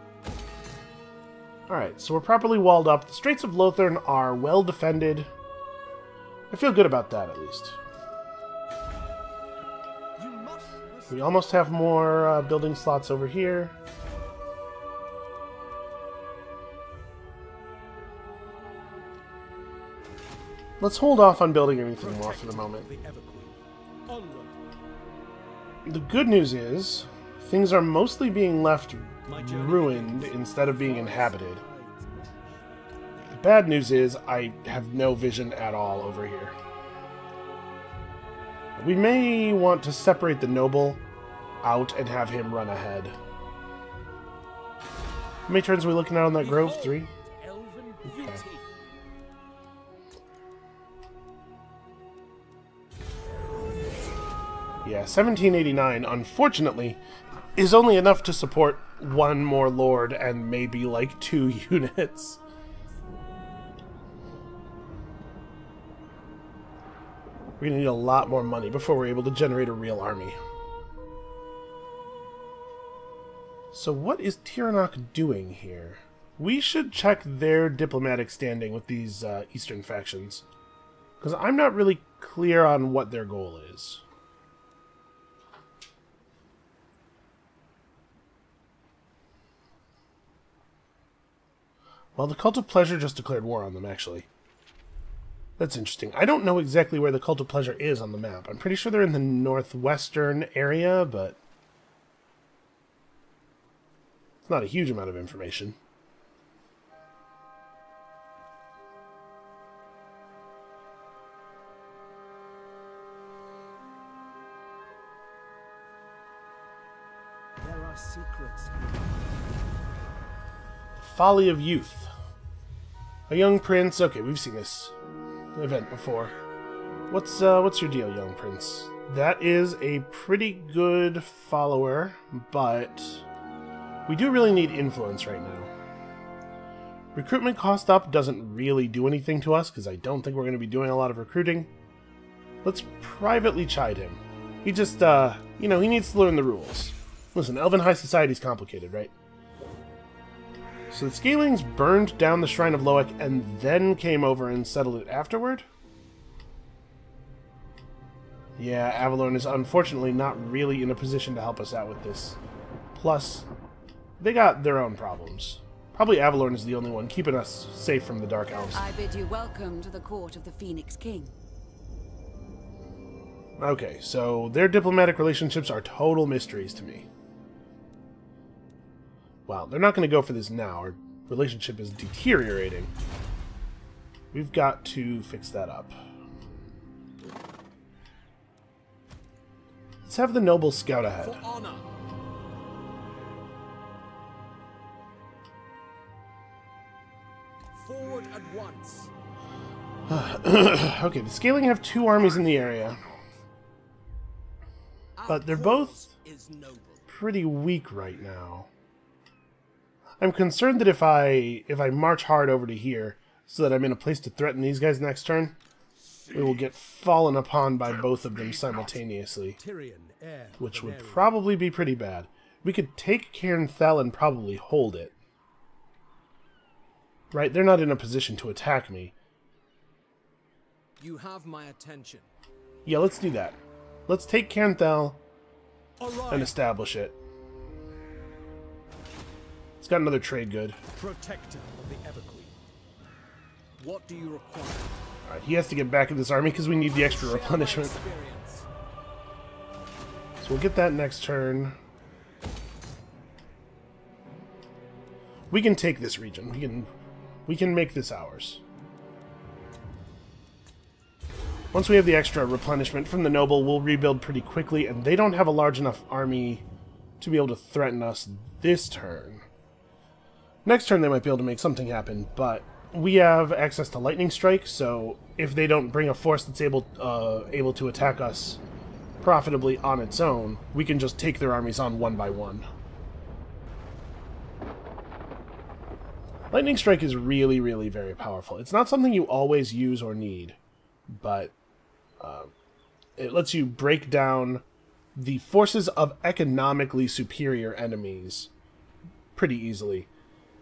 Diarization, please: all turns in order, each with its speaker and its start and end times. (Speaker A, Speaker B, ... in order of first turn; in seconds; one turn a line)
Speaker A: 1.7-5.3
Speaker A: 6.5-7.8
Speaker B: 10.2-11.7
Speaker A: 11.1-13.8
Speaker A: 20.8-22.9
Speaker B: 22.0-24.6
Speaker A: 25.9-31.6
Speaker B: 29.3-33.0
Speaker A: 33.3-36.6
Speaker A: 38.8-41.0
Speaker A: 41.6-43.2
Speaker A: 45.5-47.1
Speaker B: 46.4-48.7
Speaker A: 48.0-48.4
Speaker A: 54.8-57.0
Speaker A: 57.6-62.4
Speaker A: 67.6-70.4
Speaker A: 73.7-80.5
Speaker A: 81.2-84.0
Speaker A: 92.2-94.3
Speaker A: 95.6-101.4
Speaker A: 104.5-105.8
Speaker B: 117.6-118.9
Speaker A: 121.0-122.1
Speaker A: 123.3-125.0
Speaker A: 125.5-126.3
Speaker A: 127.1-133.2
Speaker A: 134.1-135.7
Speaker A: 137.1-141.7
Speaker A: 142.6-149.1
Speaker A: 150.9-155.7
Speaker A: 158.6-162.4
Speaker A: 162.9-163.5
Speaker A: 164.2-168.8
Speaker C: 168.5-171.3
Speaker A: 173.6-177.1
Speaker A: 179.5-182.9
Speaker A: 184.3-186.0
Speaker A: 190.1-191.4
Speaker B: 191.2-191.9
Speaker B: 197.7-199.1
Speaker A: 200.1-203.0
Speaker B: 205.2-207.1
Speaker A: 205.3-206.1
Speaker A: 207.1-208.7
Speaker A: 210.2-215.6
Speaker A: 216.3-219.6
Speaker B: 219.6-221.3
Speaker A: 220.6-225.1
Speaker A: 227.3-229.1
Speaker B: 231.0-232.3
Speaker A: 232.8-235.2
Speaker B: 236.0-236.6
Speaker A: 236.3-237.2
Speaker A: 239.8-240.8
Speaker B: 240.9-242.6
Speaker B: 243.8-245.0
Speaker A: 245.3-248.0
Speaker B: 246.8-248.7
Speaker A: 250.4-251.8
Speaker A: 255.5-256.9
Speaker A: 257.5-258.6
Speaker A: 261.7-266.6
Speaker A: 267.2-269.4
Speaker A: 270.6-278.6
Speaker A: 279.2-282.7
Speaker A: 286.5-290.6
Speaker A: 291.1-291.5
Speaker A: 292.2-292.5
Speaker A: 293.2-294.6
Speaker A: 295.2-298.5
Speaker A: 299.4-300.1